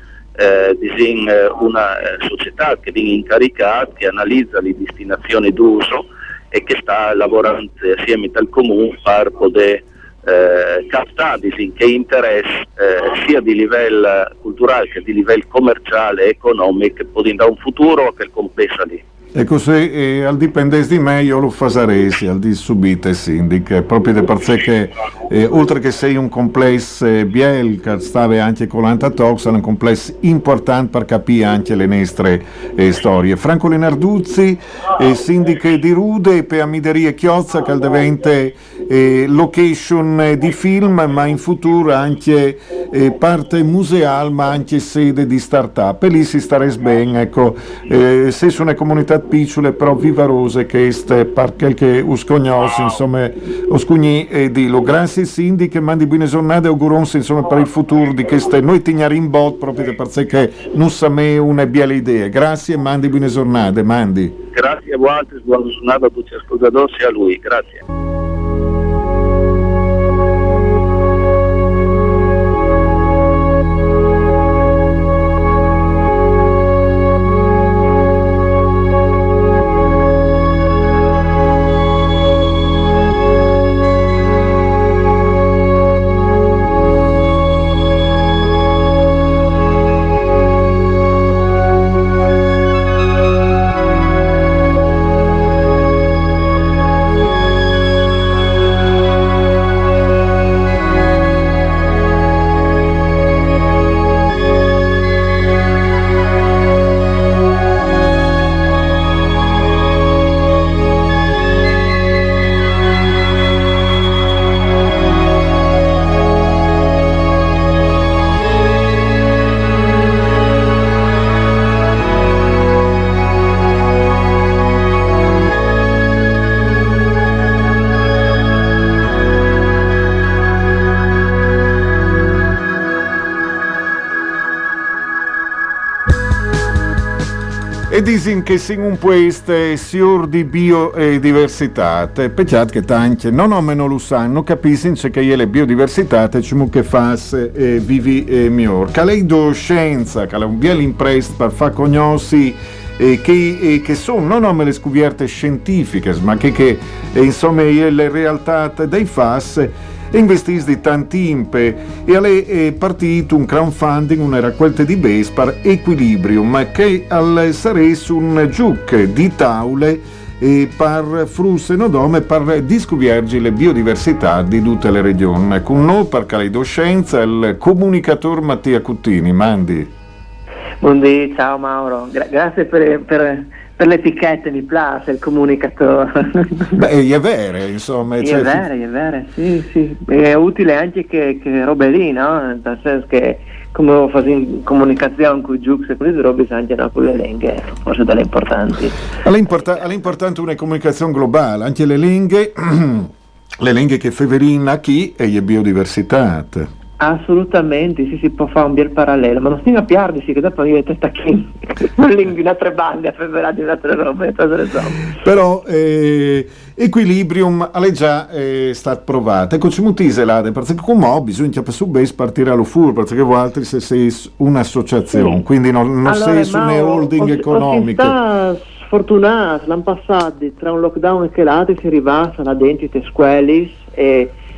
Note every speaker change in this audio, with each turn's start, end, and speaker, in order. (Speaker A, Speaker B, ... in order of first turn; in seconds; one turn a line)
Speaker A: 0.4-19.0
Speaker B: 19.4-64.4
Speaker A: 64.5-67.8
Speaker B: 137.9-179.9
Speaker C: 180.8-186.8
Speaker B: 186.7-188.7
Speaker C: 188.2-199.0
Speaker B: 199.2-206.7
Speaker C: 207.0-215.1
Speaker B: 215.2-228.2
Speaker C: 226.1-234.3